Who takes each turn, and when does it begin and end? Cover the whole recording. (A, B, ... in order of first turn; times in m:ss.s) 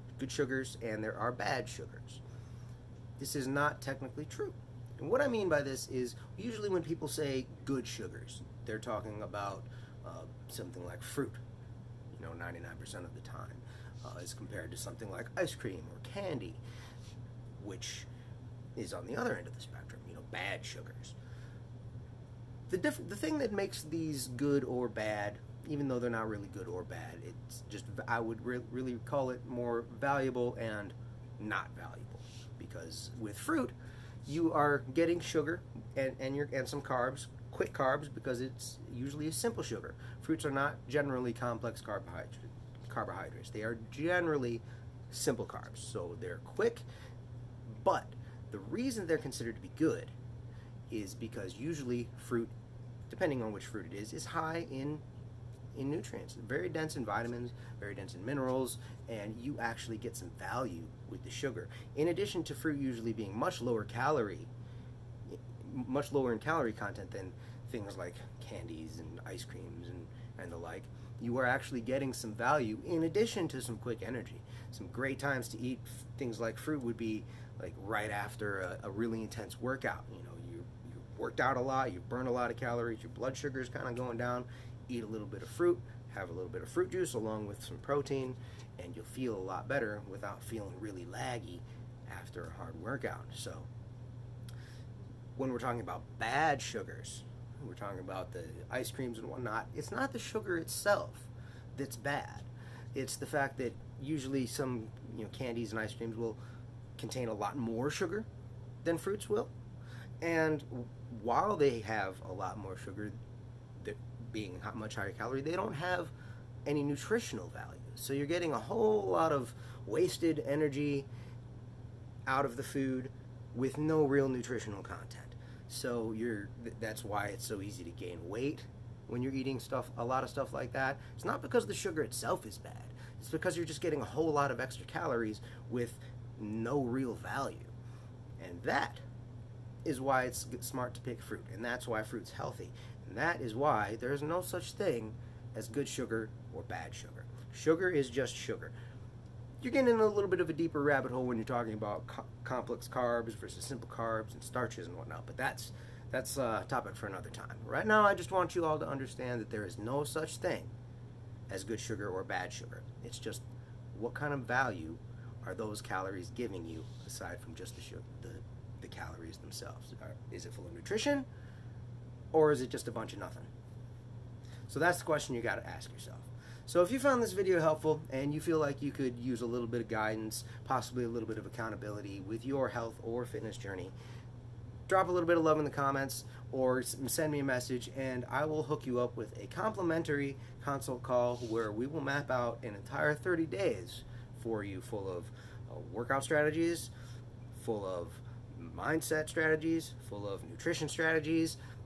0:00.2-0:02.2 A
0:03.2-0:11.4 A
0:12.1-0:16.6 A
0:17.6-0:18.1 A
0:18.8-0:21.2 A
0:22.7-0:33.7 A
0:34.3-0:46.8 A
0:47.7-0:50.1 A
0:50.9-0:52.5 A
0:53.1-0:55.0 A
0:55.8-1:04.5 A
1:05.3-1:33.7 A
1:35.4-1:46.4 A
1:47.0-1:48.3 A
1:48.8-1:49.5 A
1:50.2-1:53.2 A
1:53.8-1:56.1 A
1:56.6-2:01.1 A
2:02.3-2:17.7 A
2:18.4-2:19.0 A
2:19.8-2:28.7 A
2:29.6-2:40.7 A
2:41.5-2:51.3 A
2:52.3-2:53.5 A
2:54.7-3:03.9 A
3:04.9-3:16.9 A
3:17.5-3:21.6 A